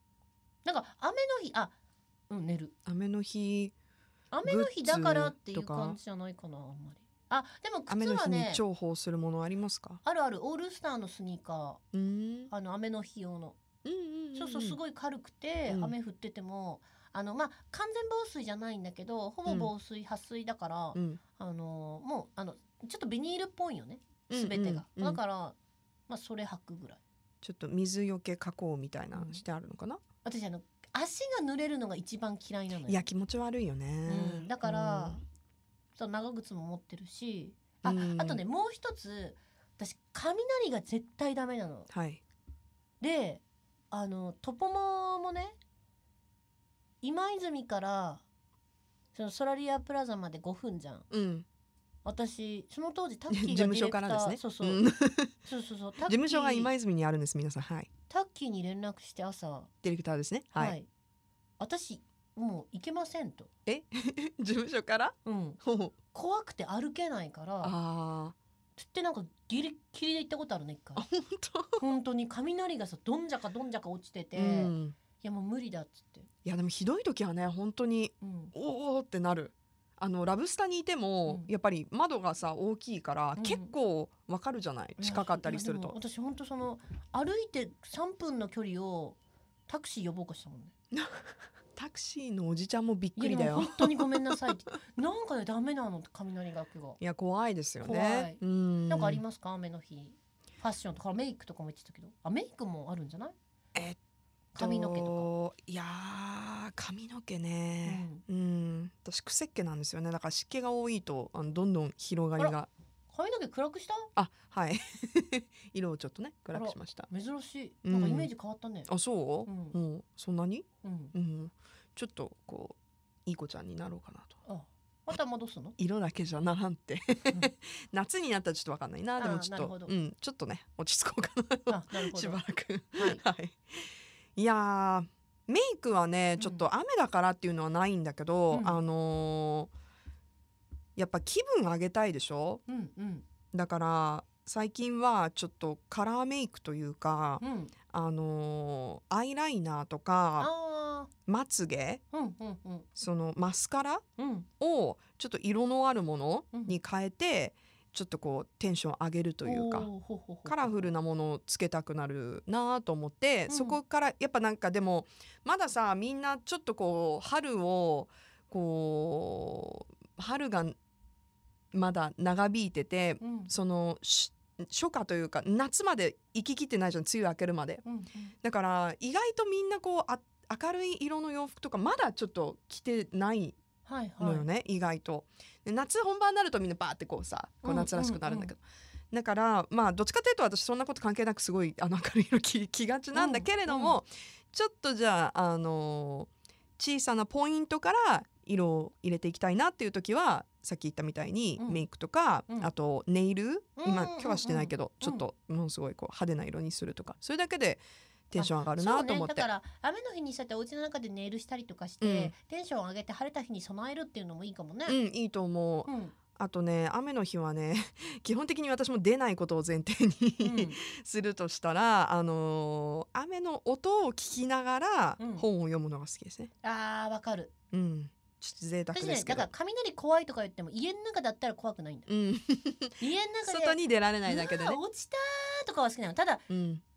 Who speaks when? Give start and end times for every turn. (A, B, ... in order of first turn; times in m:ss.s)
0:00.6-0:01.8 A
0:02.3-0:02.7 A
0:02.9-0:03.7 B
0:04.3-0:08.6 A
0:04.4-0:06.0 B
0:07.9-0:10.0 B
0:10.0-0:11.8 A
0:11.9-0:12.5 B
0:12.5-0:13.6 A
0:13.8-0:14.8 B
0:14.4-0:25.6 A
0:15.7-0:16.0 B
0:19.5-0:19.7 B
0:21.0-0:21.2 B
0:24.3-0:25.2 B
0:26.1-0:27.0 A
0:27.4-0:30.0 B
0:29.1-0:29.4 A
0:30.2-0:33.1 A
0:32.9-0:35.2 B
0:34.1-0:35.2 A
0:36.0-0:41.9 A
0:37.8-0:38.4 B
0:41.9-0:42.2 B
0:43.0-0:45.6 A
0:47.0-0:48.2 A
0:49.1-0:51.1 A
0:51.1-0:51.4 B
0:52.0-0:54.8 A
0:53.3-0:55.4 B
0:55.4-0:56.7 A
0:56.1-0:57.9 B
0:58.1-0:59.7 A
0:59.8-1:00.8 B
1:00.5-1:00.9 A
1:01.6-1:03.5 A
1:03.7-1:05.9 B
1:05.2-1:05.6 A
1:06.1-1:07.8 A
1:07.6-1:08.4 B
1:08.8-1:11.0 A
1:11.0-1:11.9 B
1:11.8-1:16.3 A
1:14.3-1:15.0 B
1:16.4-1:26.0 B
1:18.2-1:18.5 A
1:23.4-1:23.7 A
1:25.0-1:30.7 A
1:30.9-1:34.0 B
1:33.2-1:37.0 A
1:37.0-1:39.2 B
1:37.8-1:43.4 A
1:44.5-1:45.3 A
1:44.6-1:52.7 B
1:47.8-1:48.2 A
1:53.1-1:54.1 A
1:54.2-1:57.1 B
1:56.5-1:58.9 A
1:57.8-1:58.3 B
1:58.9-2:04.4 B
1:59.5-1:59.8 A
2:00.8-2:01.1 A
2:04.5-2:05.8 A
2:05.8-2:19.7 B
2:09.2-2:09.9 A
2:11.7-2:12.4 A
2:13.0-2:13.2 A
2:16.4-2:16.7 A
2:18.5-2:18.8 A
2:21.0-2:22.6 B
2:22.7-2:23.3 A
2:23.5-2:30.5 B
2:27.4-2:27.7 A
2:30.4-2:31.1 A
2:31.3-2:32.0 B
2:32.1-2:32.9 A
2:33.0-2:34.0 B
2:34.2-2:34.5 A
2:34.6-2:39.9 B
2:39.4-2:40.9 A
2:40.5-2:50.8 B
2:43.5-2:43.8 A
2:51.7-2:57.8 B
2:53.2-2:53.5 A
2:57.8-2:58.3 A
2:58.4-3:03.6 B
3:03.9-3:04.5 A
3:04.2-3:29.5 B
3:07.6-3:08.5 A
3:13.1-3:14.0 A
3:21.6-3:21.8 A
3:23.8-3:25.2 A
3:28.4-3:35.0 A
3:32.0-3:32.3 B
3:34.9-3:46.5 B
3:35.8-3:36.2 A
3:40.4-3:40.8 A
3:45.2-3:45.5 A
3:46.6-3:47.5 A
3:47.7-3:49.5 B
3:48.9-3:52.1 A
3:52.1-3:54.8 B
3:53.0-3:56.4 A
3:56.5-3:56.8 B